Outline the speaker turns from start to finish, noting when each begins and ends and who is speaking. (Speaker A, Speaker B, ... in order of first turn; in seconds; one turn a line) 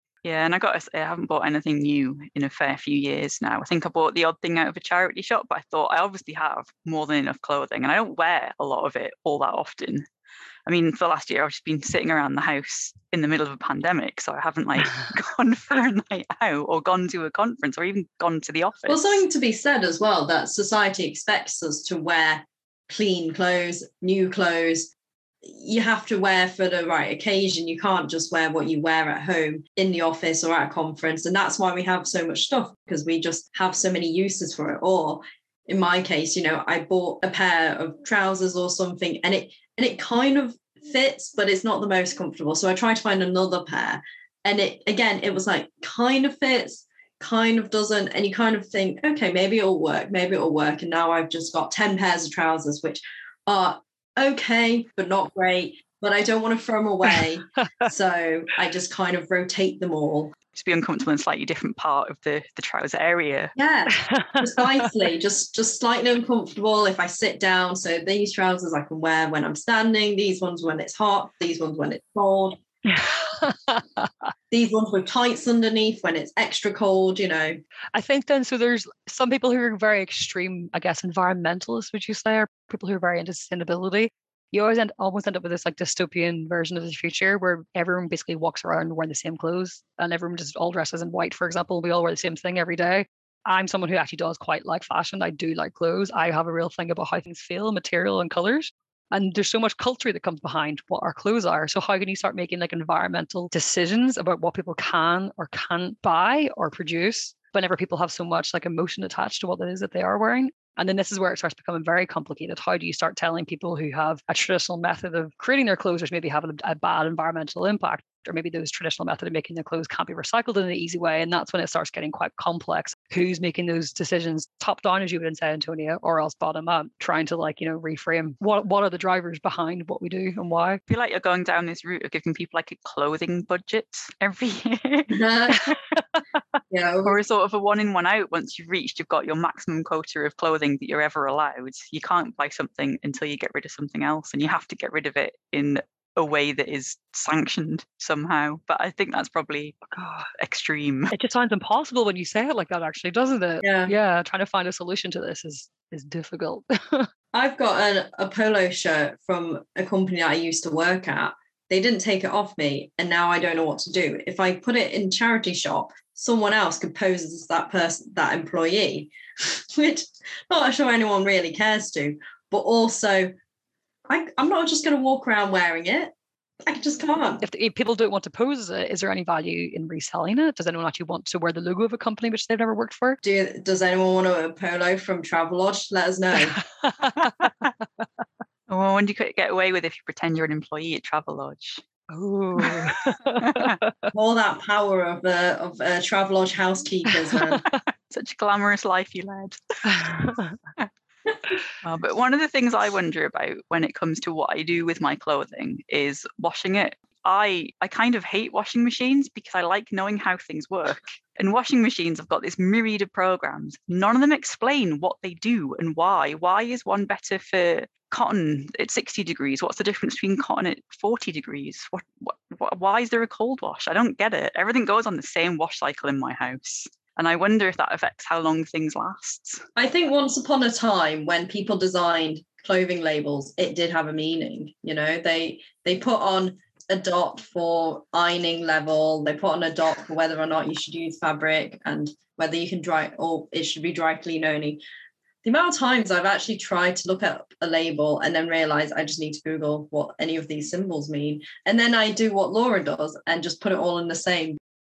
Speaker A: 0.2-10.1
Speaker A: 10.7-19.2
Speaker B: 18.9-24.9
Speaker B: 25.4-60.3
Speaker A: 60.5-63.5
Speaker B: 63.5-72.6
Speaker C: 63.9-64.9
Speaker C: 72.8-74.1
Speaker B: 74.5-77.6
Speaker C: 77.9-130.8
Speaker A: 130.9-135.8
Speaker B: 135.1-135.6
Speaker B: 136.7-137.2
Speaker A: 137.0-151.1
Speaker C: 149.9-150.3
Speaker C: 151.1-157.1
Speaker B: 153.6-153.9
Speaker B: 157.3-173.3
Speaker B: 174.1-176.1
Speaker B: 176.6-177.4
Speaker C: 177.4-183.2
Speaker B: 183.2-186.6
Speaker C: 186.8-187.5
Speaker A: 187.4-187.7
Speaker A: 188.7-191.8
Speaker C: 192.1-194.1
Speaker A: 192.6-193.8
Speaker B: 194.1-197.6
Speaker A: 198.1-200.9
Speaker C: 199.9-200.5
Speaker A: 201.8-229.6
Speaker B: 229.8-244.8
Speaker B: 245.4-254.6